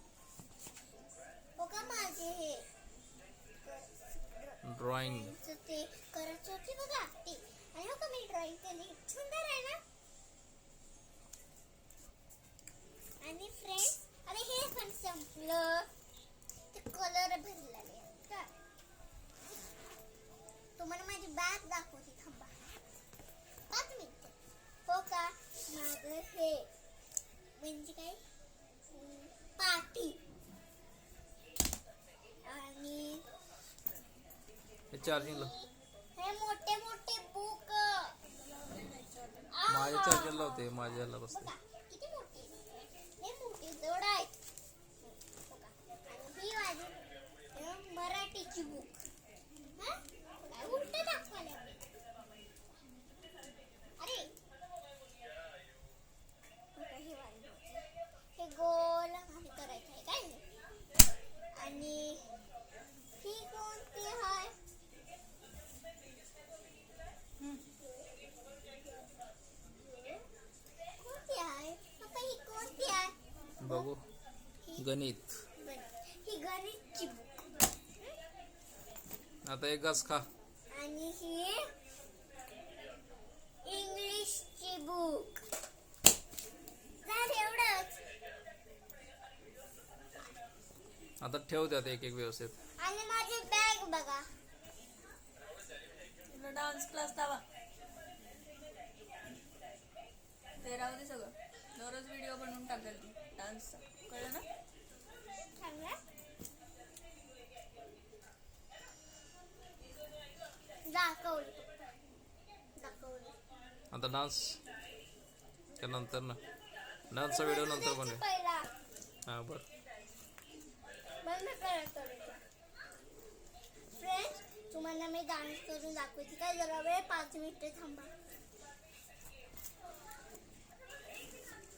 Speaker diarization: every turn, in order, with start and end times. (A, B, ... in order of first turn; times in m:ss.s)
0:01.6-0:02.7 A
0:03.6-0:09.8 A
0:04.6-0:05.3 B
0:13.2-0:15.9 A
0:16.7-0:18.5 A
0:20.8-0:22.6 A
0:23.7-0:24.4 A
0:24.9-0:26.7 A
0:27.6-0:28.2 A
0:28.9-0:30.2 A
0:32.4-0:33.2 A
0:34.9-0:35.5 B
0:35.0-0:38.2 A
0:38.5-0:39.4 C
0:39.5-0:40.7 A
0:39.7-0:41.5 B
0:41.3-0:44.4 A
0:45.0-0:47.0 A
0:47.5-0:49.0 A
0:49.8-0:51.9 A
0:54.0-0:54.3 A
0:56.8-1:00.4 A
1:01.5-1:02.2 A
1:03.2-1:04.5 A
1:11.0-1:13.9 A
1:13.6-1:14.1 B
1:14.8-1:15.4 B
1:15.6-1:18.2 A
1:19.4-1:20.3 B
1:20.7-1:21.6 A
1:23.6-1:25.4 A
1:27.0-1:28.0 A
1:31.2-1:32.6 B
1:32.8-1:34.3 A
1:36.3-1:37.4 C
1:40.6-1:44.5 C
1:45.6-1:46.0 A
1:50.9-1:51.9 A
1:52.8-1:53.4 A
1:53.9-1:54.6 B
1:55.8-1:56.4 B
1:57.1-1:58.2 B
1:57.3-1:58.7 A
1:59.3-1:59.6 B
2:01.2-2:02.4 A
2:04.0-2:08.1 A